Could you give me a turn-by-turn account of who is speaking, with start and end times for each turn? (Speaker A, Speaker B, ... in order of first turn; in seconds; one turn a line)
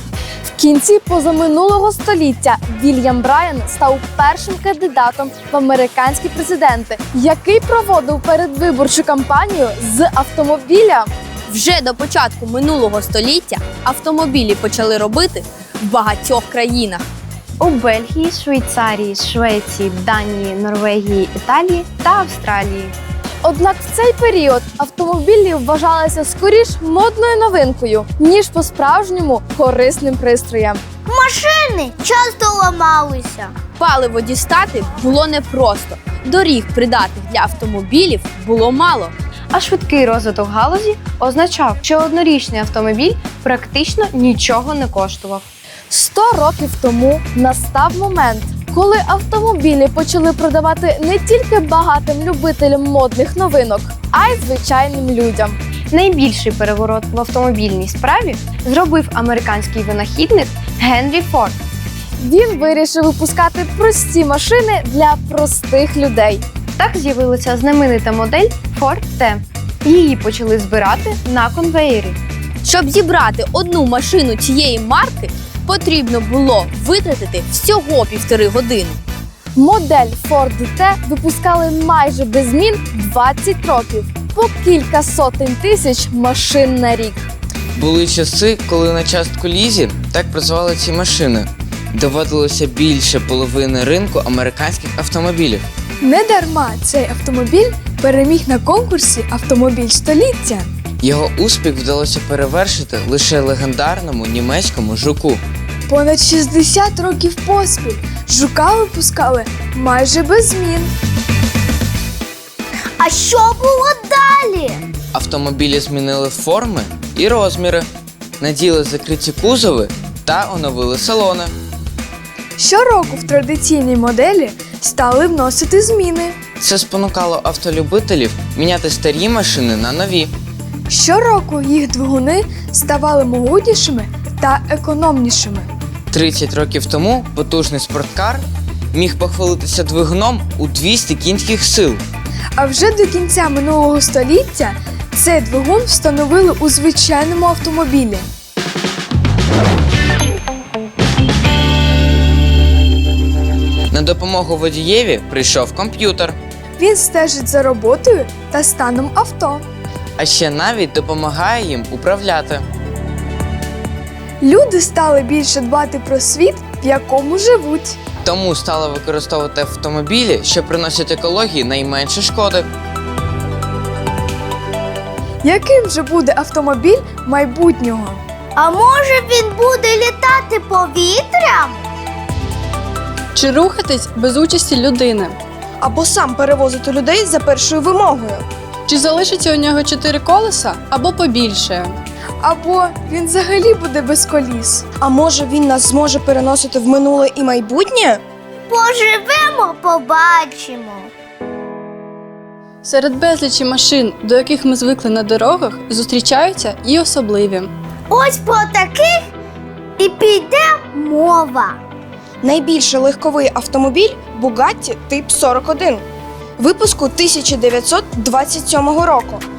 Speaker A: 0.5-11.1
Speaker B: 11.5-17.0
Speaker B: 17.7-22.9
Speaker C: 17.7-19.2
Speaker C: 19.8-22.8
Speaker A: 23.4-30.8
Speaker D: 31.1-33.5
Speaker B: 33.8-39.1
Speaker C: 39.5-45.4
Speaker B: 39.7-41.8
Speaker B: 43.2-45.2
Speaker A: 45.9-55.6
Speaker C: 55.9-61.5
Speaker B: 56.0-61.5
Speaker A: 62.2-66.4
Speaker C: 66.8-72.1
Speaker B: 66.9-69.2
Speaker B: 69.9-79.0
Speaker A: 79.6-87.3
Speaker E: 87.8-95.6
Speaker F: 96.0-100.7
Speaker E: 101.0-105.4
Speaker F: 105.9-110.9
Speaker E: 115.1-117.9
Speaker E: 118.4-121.5
Speaker F: 122.6-126.3
Speaker E: 126.6-130.3
Speaker F: 130.9-135.7
Speaker E: 136.1-142.0
Speaker F: 142.6-148.2
Speaker E: 153.9-156.4
Speaker F: 156.8-159.6
Speaker E: 160.2-162.6
Speaker F: 164.4-168.0
Speaker E: 168.2-172.7
Speaker F: 175.4-178.2
Speaker D: 178.6-181.8
Speaker G: 183.3-185.4
Speaker H: 185.8-188.4
Speaker G: 188.9-192.0
Speaker H: 192.4-198.2
Speaker D: 198.7-201.1
Speaker G: 202.8-207.7
Speaker D: 208.1-209.2
Speaker D: 210.0-211.8
Speaker H: 212.4-216.1
Speaker H: 216.6-219.4